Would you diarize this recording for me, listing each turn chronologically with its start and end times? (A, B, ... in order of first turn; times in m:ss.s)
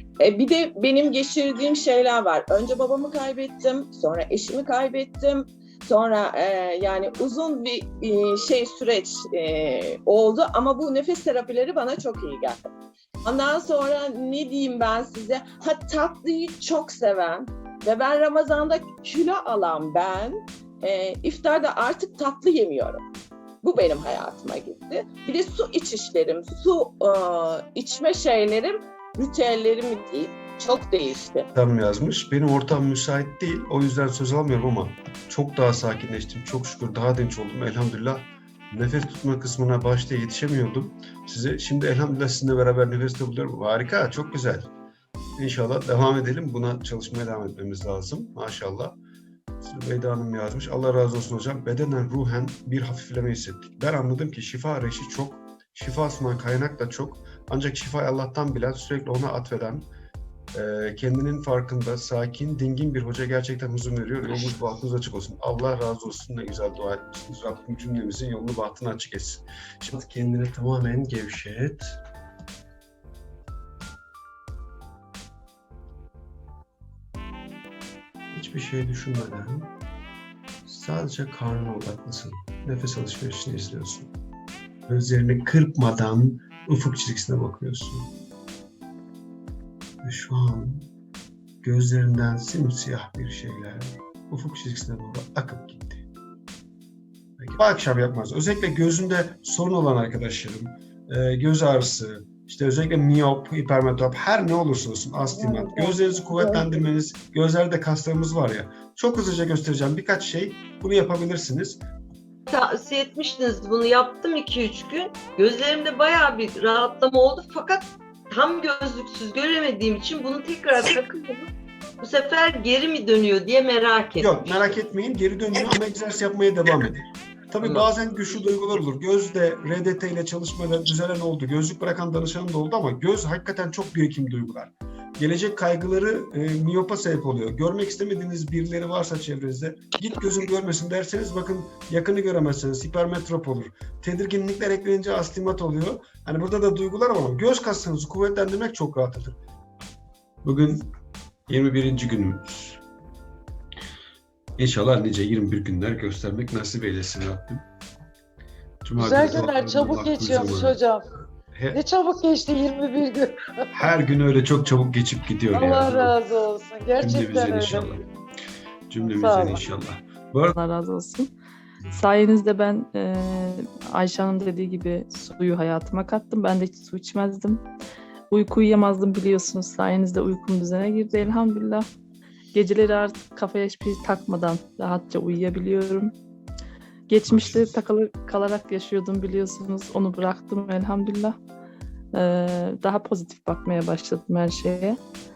0:00.2-0:12.7 A
0:13.2-0:23.0 A
0:23.6-0:31.5 A
0:31.5-0:44.7 B
0:45.4-0:49.0 B
0:49.6-0:59.9 B
1:00.5-1:11.9 B
1:18.3-1:19.7 B
1:20.6-1:24.1 B
1:24.9-1:28.1 B
1:30.0-1:30.8 B
1:31.6-1:36.0 B
1:37.4-1:51.8 B
1:52.6-1:52.9 C
1:55.3-1:57.8 C
1:59.4-2:00.8 C
2:02.1-2:04.2 C
2:04.2-2:29.4 B
2:30.4-2:30.8 B
2:31.5-2:32.8 B
2:34.6-2:37.6 B
2:38.8-2:40.8 B
2:39.0-2:41.0 D
2:41.5-2:41.8 B
2:41.7-2:43.9 D
2:43.7-2:46.2 B
2:45.5-2:47.9 D
2:47.0-2:48.0 B
2:48.9-2:50.6 B
2:49.0-2:49.6 D
2:50.5-2:51.3 E
2:51.9-2:57.6 E
2:58.3-3:01.9 E
3:02.5-3:06.1 E
3:07.1-3:11.4 E
3:07.3-3:07.7 B
3:12.1-3:15.0 E